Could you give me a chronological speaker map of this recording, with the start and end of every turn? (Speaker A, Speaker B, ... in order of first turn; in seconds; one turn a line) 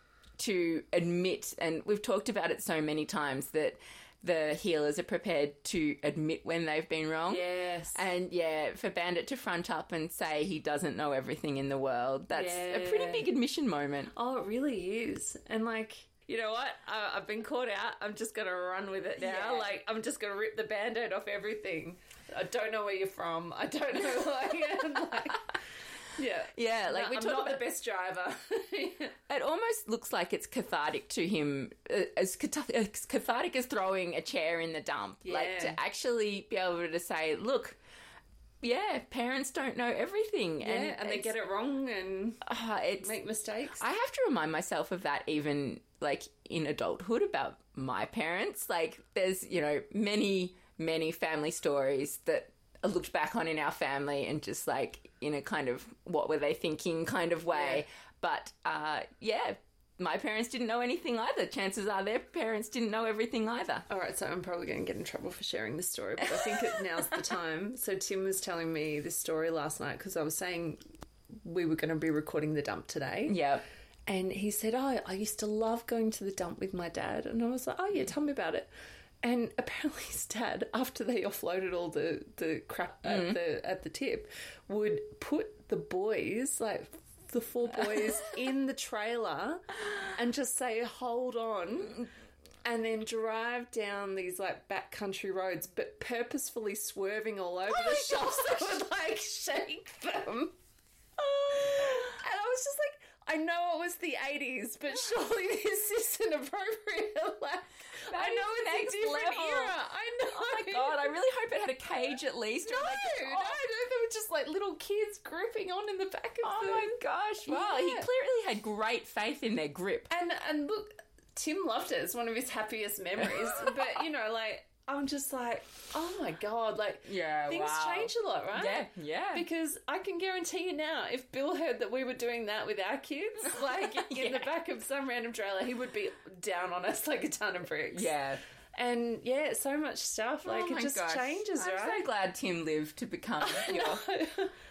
Speaker A: 0.4-14.1
Speaker B: 7.3-8.1
Speaker B: 12.3-13.3
Speaker B: 14.1-25.6
Speaker A: 19.2-19.8
Speaker B: 26.1-29.1
Speaker A: 26.5-27.7
Speaker A: 29.3-37.8
Speaker B: 35.2-35.8
Speaker A: 38.6-41.3
Speaker B: 40.6-42.5
Speaker A: 42.4-43.1
Speaker B: 43.0-43.8
Speaker A: 43.8-63.9
Speaker B: 57.5-57.8
Speaker B: 63.9-70.8
Speaker B: 71.4-73.4
Speaker A: 73.3-73.6
Speaker B: 74.1-78.7
Speaker B: 79.2-92.1
Speaker A: 83.0-83.4
Speaker B: 92.6-100.5
Speaker A: 97.9-98.3
Speaker B: 101.2-111.1
Speaker A: 108.1-109.8
Speaker A: 110.3-113.6
Speaker B: 112.6-116.9
Speaker A: 116.4-120.1
Speaker B: 117.5-118.1
Speaker B: 120.1-138.1
Speaker A: 127.0-129.4
Speaker A: 133.6-134.5
Speaker A: 137.9-138.4
Speaker B: 138.8-142.1
Speaker A: 140.4-144.1
Speaker B: 143.4-144.5